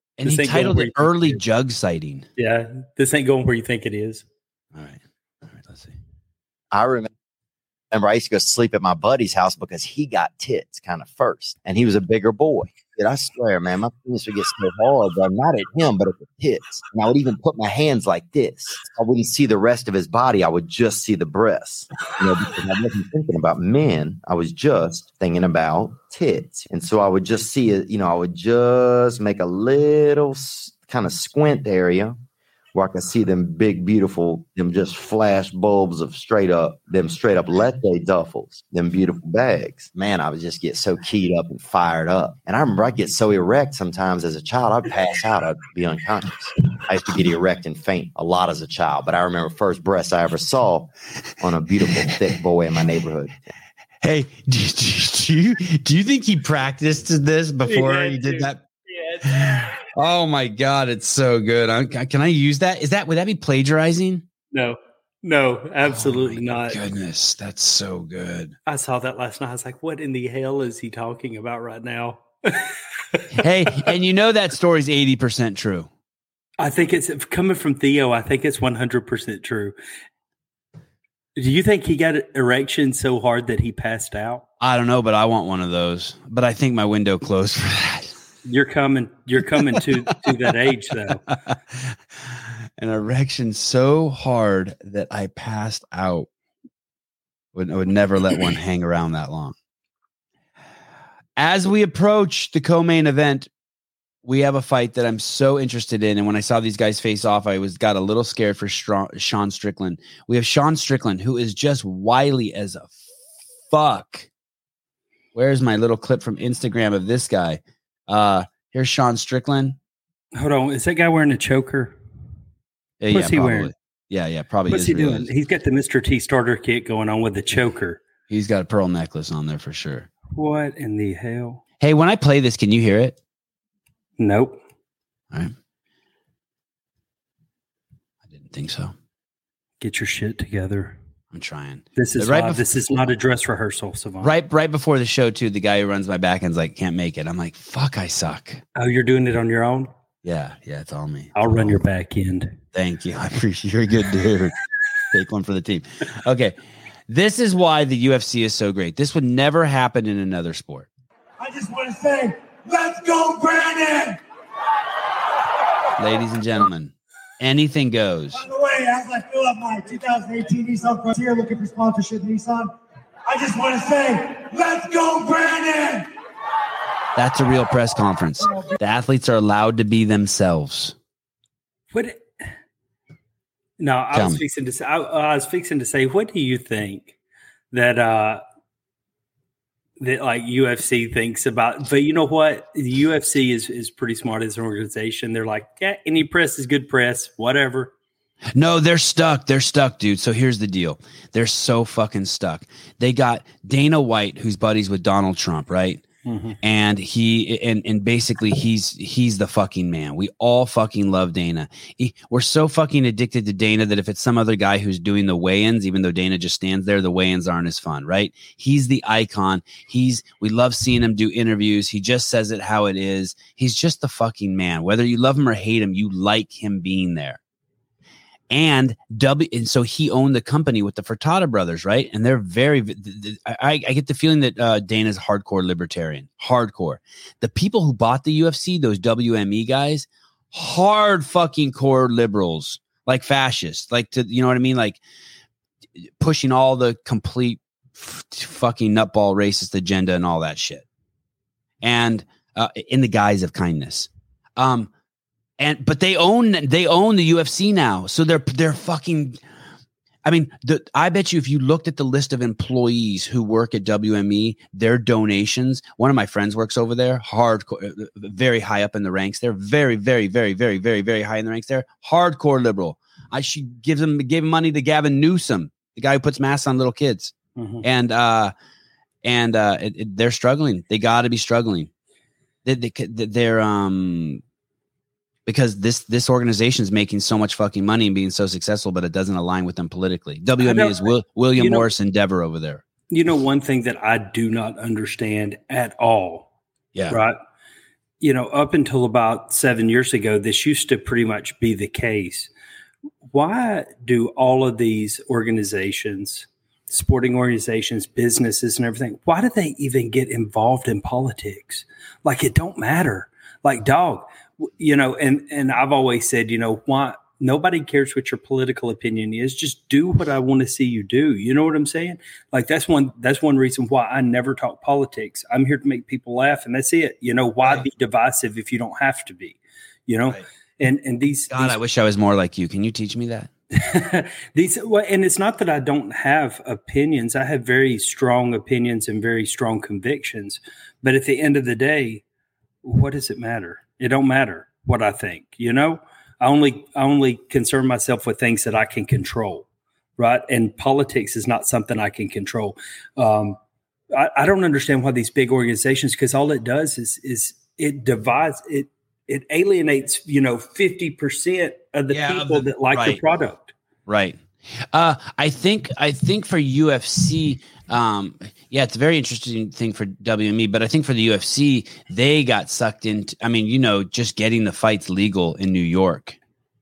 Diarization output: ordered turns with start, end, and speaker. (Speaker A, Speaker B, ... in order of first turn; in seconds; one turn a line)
Speaker A: 0.2-2.3
Speaker B: 0.2-1.4
Speaker B: 2.4-4.2
Speaker A: 4.8-5.9
Speaker C: 6.7-7.1
Speaker C: 7.9-32.2
Speaker C: 32.7-53.3
Speaker A: 54.0-58.6
Speaker B: 57.7-59.7
Speaker A: 59.2-64.2
Speaker B: 64.5-66.8
Speaker A: 65.8-68.5
Speaker B: 68.7-73.9
Speaker A: 73.3-75.9
Speaker B: 76.6-79.8
Speaker B: 81.4-84.4
Speaker A: 84.6-88.1
Speaker B: 88.5-91.2
Speaker A: 91.3-91.9
Speaker A: 92.8-96.3
Speaker A: 97.5-99.5
Speaker A: 101.4-103.5
Speaker A: 104.2-112.9
Speaker A: 113.7-114.3
Speaker A: 115.3-119.8
Speaker B: 120.3-122.0
Speaker A: 123.0-125.3
Speaker B: 123.1-123.7
Speaker B: 124.7-128.0
Speaker A: 128.3-130.1
Speaker B: 130.3-131.6
Speaker A: 131.8-133.2
Speaker B: 134.2-134.6
Speaker A: 138.3-138.9
Speaker B: 139.8-141.0
Speaker A: 141.3-143.0
Speaker B: 142.0-144.4
Speaker A: 144.2-148.6
Speaker B: 148.8-149.9
Speaker A: 150.2-151.8
Speaker B: 151.3-152.6
Speaker A: 152.7-154.6
Speaker A: 155.1-156.6
Speaker A: 157.1-160.9
Speaker D: 161.4-164.2
Speaker A: 166.0-168.4
Speaker D: 168.4-172.7
Speaker D: 173.3-176.1
Speaker A: 177.2-180.9
Speaker B: 181.9-182.3
Speaker B: 183.8-187.2
Speaker A: 184.1-184.4
Speaker B: 187.7-188.4
Speaker B: 190.0-197.9
Speaker A: 198.6-206.0
Speaker B: 206.2-206.6
Speaker A: 206.6-227.4
Speaker A: 228.5-245.0
Speaker A: 246.2-250.8
Speaker A: 251.8-254.9
Speaker A: 255.6-259.4
Speaker A: 260.2-278.5
Speaker B: 277.6-277.9
Speaker A: 279.2-281.9
Speaker A: 282.6-284.4
Speaker A: 285.5-292.8
Speaker B: 290.6-291.9
Speaker B: 293.1-296.5
Speaker A: 296.9-297.2
Speaker B: 297.1-297.4
Speaker B: 298.2-302.5
Speaker B: 303.2-331.8
Speaker A: 331.5-333.5
Speaker B: 333.8-342.2
Speaker B: 342.8-353.6
Speaker B: 354.1-363.7
Speaker A: 362.1-363.2
Speaker A: 364.1-364.4
Speaker A: 364.9-376.4